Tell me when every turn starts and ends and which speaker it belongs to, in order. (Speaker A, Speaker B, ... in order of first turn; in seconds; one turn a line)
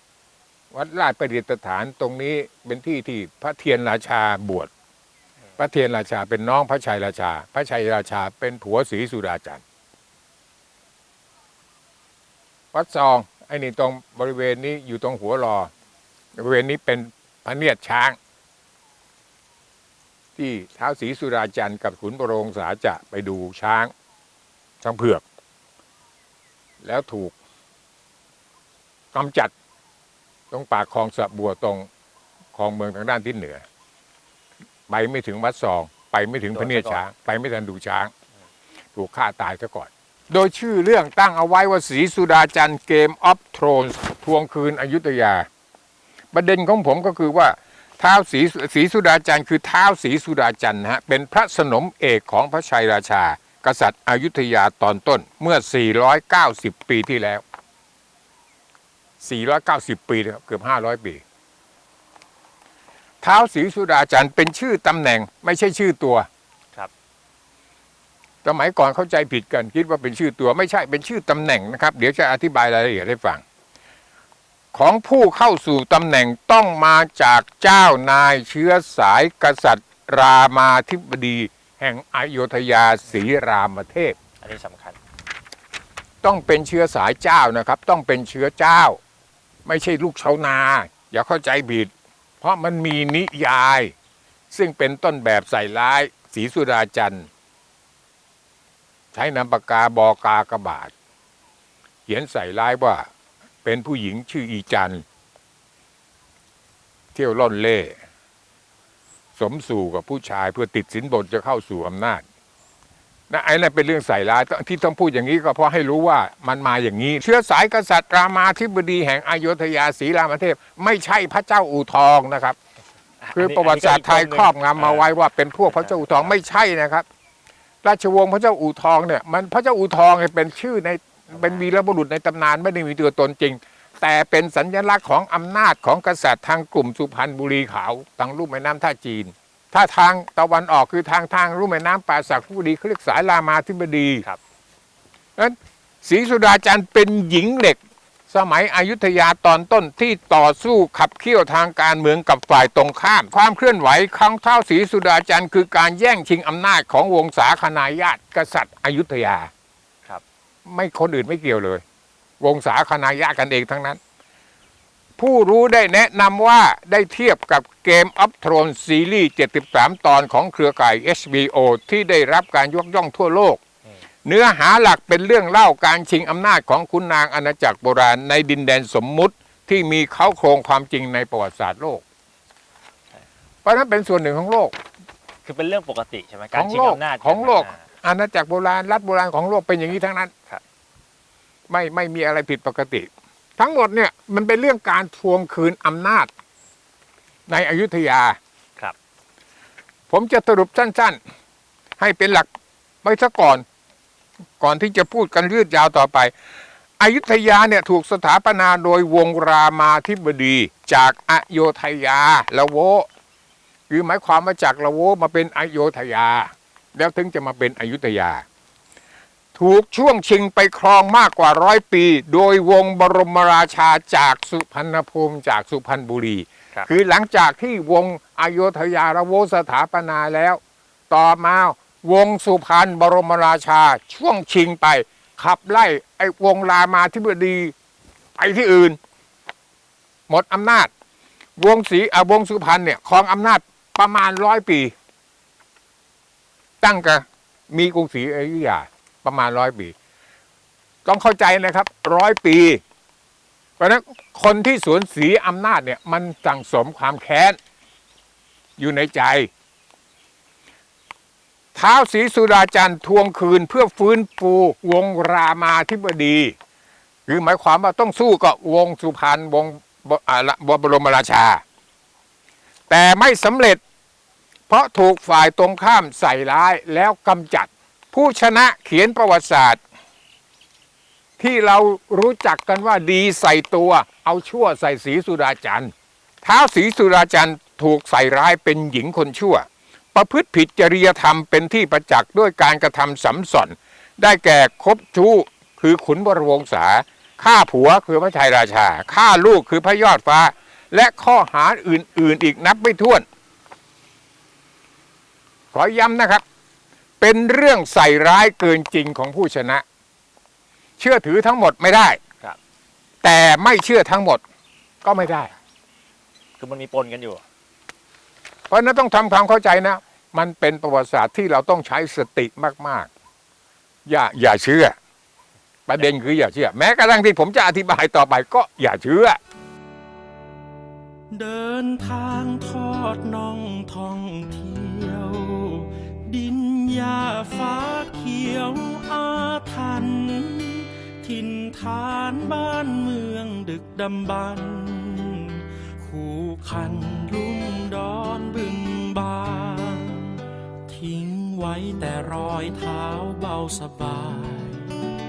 Speaker A: 0.7-4.7
Speaker A: 5.6-9.6
Speaker A: 12.7-15.7
Speaker A: 16.4-18.2
Speaker A: 20.4-23.9
Speaker A: 24.8-25.2
Speaker A: 26.8-27.4
Speaker A: 29.1-29.5
Speaker A: 30.5-31.9
Speaker A: 32.5-33.6
Speaker A: 34.9-38.1
Speaker B: 36.5-37.0
Speaker A: 39.0-45.5
Speaker A: 46.3-57.4
Speaker A: 59.2-61.2
Speaker A: 63.2-66.3
Speaker A: 68.4-73.4
Speaker A: 74.7-84.2
Speaker B: 84.4-85.0
Speaker A: 86.2-89.0
Speaker A: 89.7-93.9
Speaker A: 94.5-97.3
Speaker A: 99.1-100.9
Speaker A: 102.1-103.1
Speaker A: 103.6-105.0
Speaker A: 107.2-108.0
Speaker A: 109.3-112.2
Speaker A: 113.3-122.6
Speaker B: 123.2-125.1
Speaker A: 123.3-127.0
Speaker B: 125.7-126.4
Speaker A: 127.8-144.2
Speaker B: 131.3-131.7
Speaker A: 145.4-159.5
Speaker A: 160.7-161.8
Speaker A: 162.4-164.0
Speaker A: 165.2-173.6
Speaker A: 174.2-182.0
Speaker A: 183.6-184.8
Speaker B: 185.4-187.8
Speaker A: 186.5-190.3
Speaker A: 191.7-196.3
Speaker A: 197.5-198.4
Speaker A: 200.1-201.2
Speaker A: 202.0-202.5
Speaker A: 203.0-203.7
Speaker A: 204.6-206.3
Speaker A: 207.0-213.1
Speaker A: 213.9-218.4
Speaker A: 219.6-237.7
Speaker A: 238.4-239.0
Speaker A: 240.3-240.9
Speaker A: 241.6-244.9
Speaker A: 246.8-249.9
Speaker A: 251.1-252.8
Speaker A: 253.8-257.6
Speaker A: 258.8-259.5
Speaker A: 261.8-266.5
Speaker A: 267.3-271.6
Speaker A: 272.9-273.8
Speaker A: 274.7-279.8
Speaker A: 281.4-285.9
Speaker A: 286.4-303.2
Speaker A: 305.7-306.4
Speaker A: 307.2-309.8
Speaker A: 311.0-312.2
Speaker A: 313.2-314.4
Speaker A: 315.0-315.5
Speaker B: 316.6-317.4
Speaker A: 318.7-323.1
Speaker A: 324.1-324.9
Speaker A: 325.9-329.4
Speaker C: 331.3-355.0